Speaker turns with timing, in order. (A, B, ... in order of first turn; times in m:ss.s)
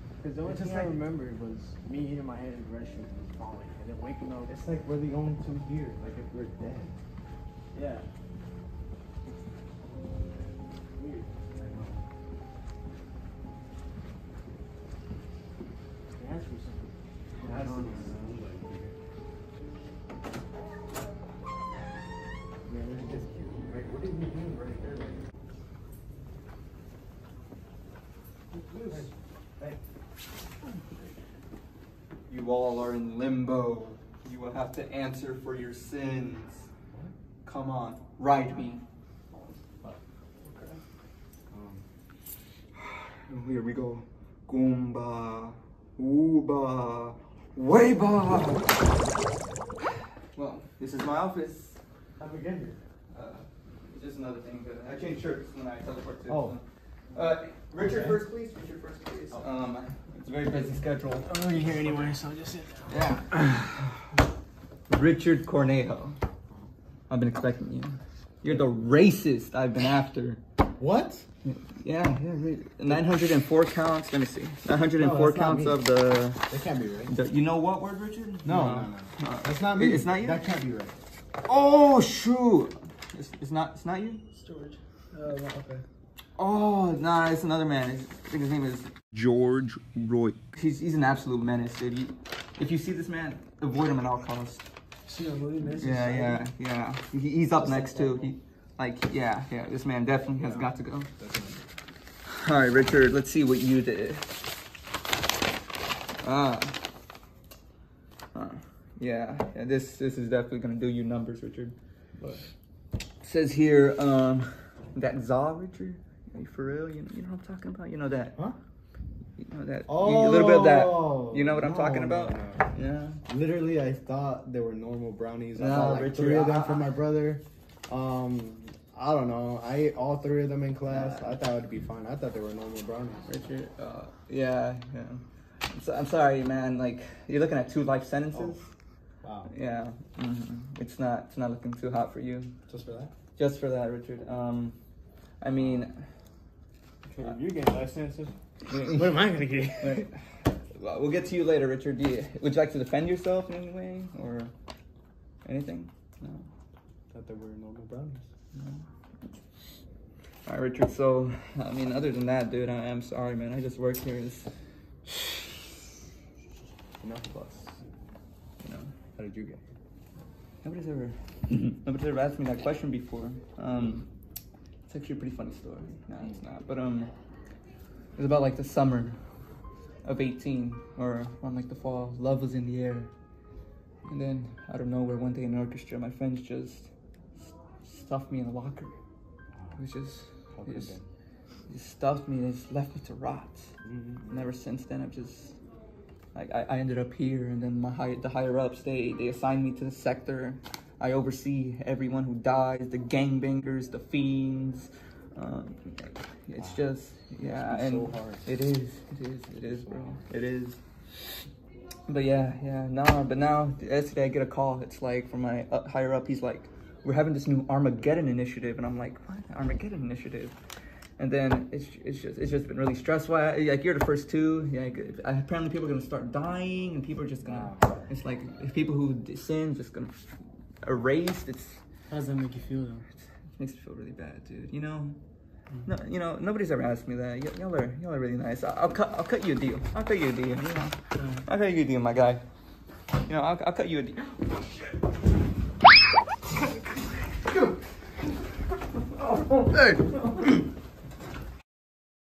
0:00.2-0:04.5 A
0:00.4-0:01.0 B
0:04.5-0:07.0 B
0:07.7-0:08.0 A
0:09.9-0:10.5 B
0:11.0-0:11.3 A
0:11.6-0:12.0 B
0:16.2-0:18.1 A
0:17.4-0:18.9 B
0:22.7-0:23.2 A
0:22.7-0:25.2 B
0:28.5-0:29.1 A
0:28.8-0:29.8 B
0:32.3-0:36.7 C
0:37.4-0:38.8 C
0:40.4-0:40.8 A
0:41.5-0:41.8 B
0:42.7-0:48.9 C
0:50.3-0:51.8 C
0:52.2-0:52.8 B
0:53.1-0:56.6 C
0:56.2-0:56.6 B
0:57.1-1:02.1 C
0:57.8-0:58.2 B
1:01.2-1:03.0 A
1:02.9-1:03.9 C
1:04.9-1:06.2 C
1:07.1-1:10.4 C
1:10.8-1:11.2 B
1:11.4-1:16.5 C
1:15.0-1:15.8 B
1:16.5-1:17.1 B
1:17.1-1:20.4 C
1:18.4-1:21.0 B
1:21.4-1:24.2 C
1:24.3-1:25.8 A
1:26.4-1:34.6 C
1:35.0-1:36.4 A
1:35.8-1:41.1 C
1:37.6-1:38.3 A
1:40.4-1:41.6 B
1:42.2-1:44.4 C
1:46.2-1:46.8 C
1:48.3-1:51.7 C
1:53.2-1:58.4 C
1:59.4-2:03.2 C
1:59.9-2:02.7 B
2:03.3-2:13.3 B
2:05.6-2:06.9 C
2:10.9-2:11.4 C
2:13.2-2:18.7 C
2:18.3-2:18.6 B
2:19.2-2:19.5 B
2:19.5-2:22.5 C
2:22.7-2:23.1 B
2:23.4-2:24.8 C
2:25.4-2:26.0 C
2:27.0-2:28.3 A
2:28.7-2:29.1 C
2:28.9-2:29.9 A
2:29.8-2:30.2 C
2:30.7-2:34.5 C
2:35.4-2:36.5 C
2:37.1-2:38.2 B
2:38.5-2:39.3 C
2:40.4-2:44.5 C
2:45.1-2:45.4 C
2:47.0-2:47.8 B
2:48.6-2:48.9 C
2:49.2-2:49.6 B
2:50.6-2:54.1 C
2:54.9-2:57.1 C
2:58.2-2:59.2 C
3:00.0-3:03.1 C
3:04.1-3:06.9 C
3:07.5-3:08.9 C
3:09.5-3:09.8 B
3:09.8-3:11.0 C
3:10.5-3:11.0 B
3:11.7-3:13.7 C
3:13.8-3:14.5 B
3:14.3-3:15.6 C
3:16.3-3:30.8 C
3:26.6-3:26.8 B
3:27.4-3:28.5 B
3:29.6-3:30.2 B
3:32.1-3:40.5 C
3:41.2-3:50.2 C
3:47.4-3:47.9 B
3:50.8-3:51.8 C
3:52.1-3:53.0 A
3:53.6-3:55.2 C
3:55.8-4:02.4 C
4:03.2-4:04.3 C
4:09.2-4:10.4 C